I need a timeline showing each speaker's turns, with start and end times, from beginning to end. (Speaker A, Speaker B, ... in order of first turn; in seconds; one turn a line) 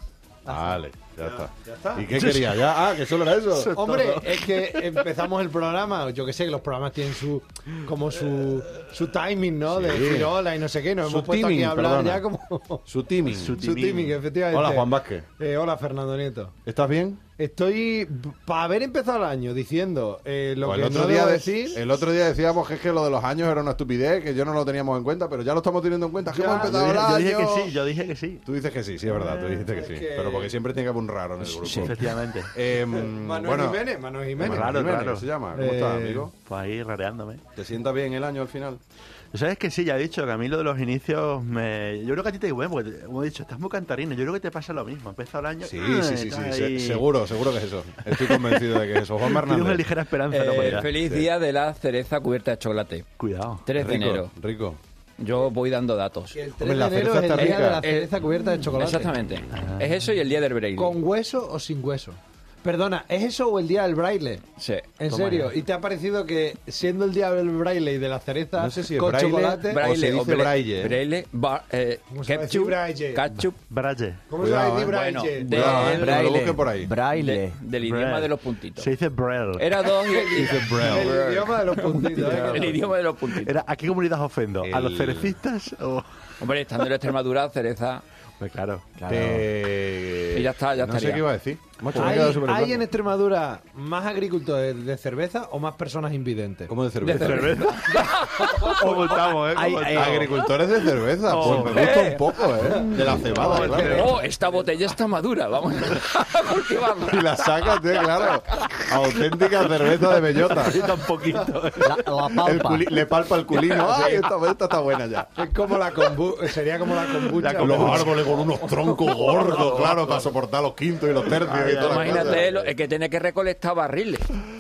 Speaker A: 0.5-3.8
Speaker B: 0.5-2.2
Speaker C: 2.1-2.7
Speaker C: 3.5-5.1
Speaker B: 3.7-12.8
Speaker A: 9.7-10.3
Speaker A: 11.0-12.2
Speaker A: 12.9-13.6
Speaker C: 13.2-14.2
Speaker B: 13.6-16.6
Speaker A: 14.5-15.2
Speaker A: 16.6-17.2
Speaker B: 17.4-21.9
Speaker A: 20.6-27.7
Speaker B: 26.4-26.8
Speaker C: 26.4-28.4
Speaker A: 28.4-33.8
Speaker B: 29.3-30.6
Speaker D: 31.5-32.0
Speaker C: 31.6-32.5
Speaker B: 32.9-34.8
Speaker A: 34.4-36.3
Speaker C: 34.4-35.3
Speaker B: 35.5-36.3
Speaker C: 36.4-37.4
Speaker A: 37.6-38.8
Speaker C: 39.3-47.1
Speaker A: 45.6-49.9
Speaker C: 48.1-50.9
Speaker E: 50.3-53.1
Speaker A: 50.6-51.3
Speaker C: 53.2-53.6
Speaker E: 53.6-54.3
Speaker A: 53.8-54.8
Speaker E: 55.2-56.4
Speaker B: 56.3-59.2
Speaker A: 56.6-57.8
Speaker E: 57.4-58.1
Speaker E: 58.7-61.0
Speaker C: 59.5-59.9
Speaker B: 60.8-64.4
Speaker E: 64.6-65.5
Speaker B: 65.0-69.8
Speaker A: 68.6-71.0
Speaker E: 69.7-73.6
Speaker B: 72.1-73.2
Speaker C: 73.3-74.2
Speaker B: 74.3-76.0
Speaker A: 74.4-75.0
Speaker E: 74.9-76.3
Speaker A: 75.5-76.9
Speaker D: 75.5-77.6
Speaker E: 77.1-78.9
Speaker C: 77.8-80.0
Speaker E: 79.6-83.5
Speaker B: 80.0-82.8
Speaker A: 80.5-81.1
Speaker C: 82.1-86.1
Speaker A: 84.6-85.4
Speaker E: 86.4-88.0
Speaker C: 88.4-88.9
Speaker D: 89.0-89.5
Speaker A: 89.1-92.9
Speaker E: 90.3-91.3
Speaker B: 92.0-96.7
Speaker A: 96.7-97.6
Speaker E: 97.0-98.9
Speaker C: 97.1-100.5
Speaker D: 98.8-100.3
Speaker A: 99.9-104.1
Speaker C: 101.3-102.0
Speaker E: 101.6-102.2
Speaker B: 101.7-104.1
Speaker C: 103.3-104.1
Speaker E: 103.4-108.7
Speaker A: 107.1-110.9
Speaker C: 110.3-112.1
Speaker D: 111.8-113.0
Speaker A: 112.3-115.5
Speaker E: 113.9-114.2
Speaker B: 115.3-119.8
Speaker C: 117.4-118.3
Speaker A: 117.6-122.5
Speaker C: 119.5-120.2
Speaker C: 121.2-122.7
Speaker E: 121.7-124.3